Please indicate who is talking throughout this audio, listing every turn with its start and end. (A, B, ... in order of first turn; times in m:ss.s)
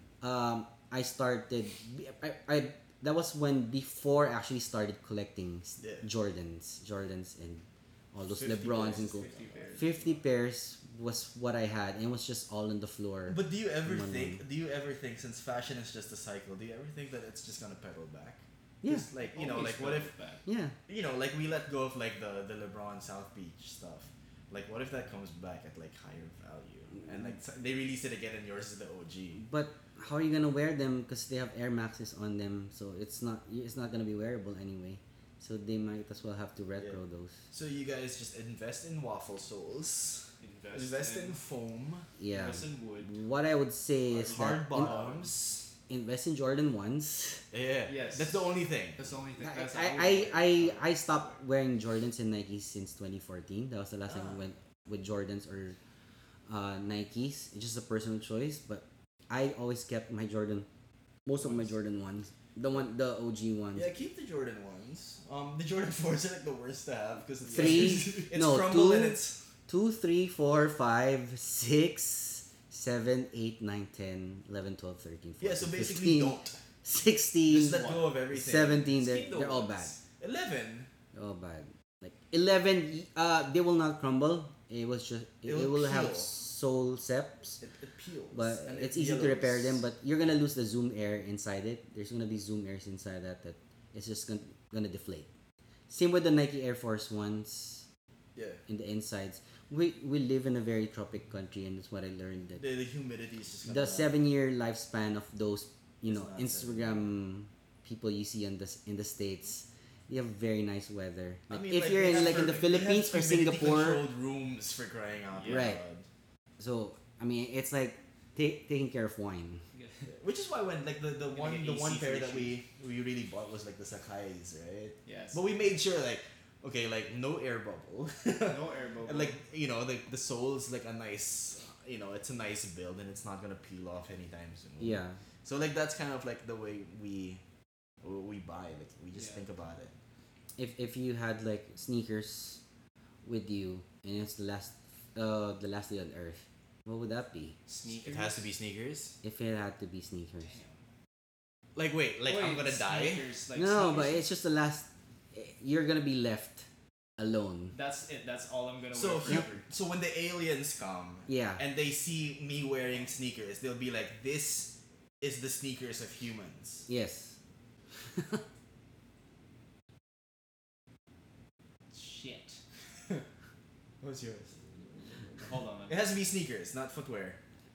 0:00.2-0:14.4 A
0:05.8-0:06.1 B
0:08.3-0:09.9 B
0:08.9-0:10.2 C
0:13.3-0:20.1 B
0:18.8-0:19.1 A
0:19.3-0:20.4 C
0:20.4-0:20.7 A
0:20.9-0:29.4 B
0:29.4-0:37.5 A
0:37.5-0:42.1 B
0:40.4-0:41.4 C
0:42.2-0:45.0 A
0:42.3-0:43.1 C
0:44.1-0:45.7 B
0:44.3-0:45.3 C
0:45.9-0:47.4 A
0:47.5-0:49.1 B
0:47.8-0:51.0 C
0:49.4-0:55.8 A
0:54.1-0:54.4 B
0:56.5-1:00.7 A
1:01.2-1:03.9 A
1:03.7-1:09.4 B
1:07.4-1:08.2 C
1:07.5-1:19.9 A
1:15.4-1:16.6 B
1:17.5-1:18.9 B
1:17.7-1:18.1 C
1:18.8-1:20.0 C
1:20.2-1:20.9 B
1:21.1-1:27.6 A
1:25.4-1:26.3 B
1:27.6-1:29.8 B
1:28.3-1:35.3 A
1:35.9-1:37.9 A
1:38.3-1:38.6 B
1:38.7-1:42.6 A
1:42.6-1:44.1 B
1:43.6-1:54.0 A
1:46.0-1:47.0 B
1:51.5-1:56.1 B
1:55.3-1:55.7 C
1:55.5-1:55.8 A
1:56.6-1:59.6 A
1:59.7-2:00.1 C
2:00.1-2:17.4 B
2:01.3-2:02.6 C
2:05.0-2:05.5 C
2:08.5-2:09.4 C
2:14.8-2:15.2 A
2:18.0-2:19.9 B
2:19.1-2:19.4 C
2:20.6-2:22.6 A
2:23.2-2:27.6 A
2:27.7-2:28.5 C
2:27.8-2:29.2 B
2:29.2-2:30.6 A
2:30.4-2:30.7 C
2:31.7-2:33.3 B
2:32.2-2:34.2 C
2:33.5-2:36.7 A
2:37.2-2:37.7 A
2:37.7-2:39.6 C
2:38.9-2:46.9 B
2:41.3-2:41.6 A
2:46.9-2:47.4 A
2:48.1-2:48.4 A
2:51.9-2:52.6 C
2:54.0-2:54.6 B
2:55.4-2:56.0 C
2:55.9-2:57.4 B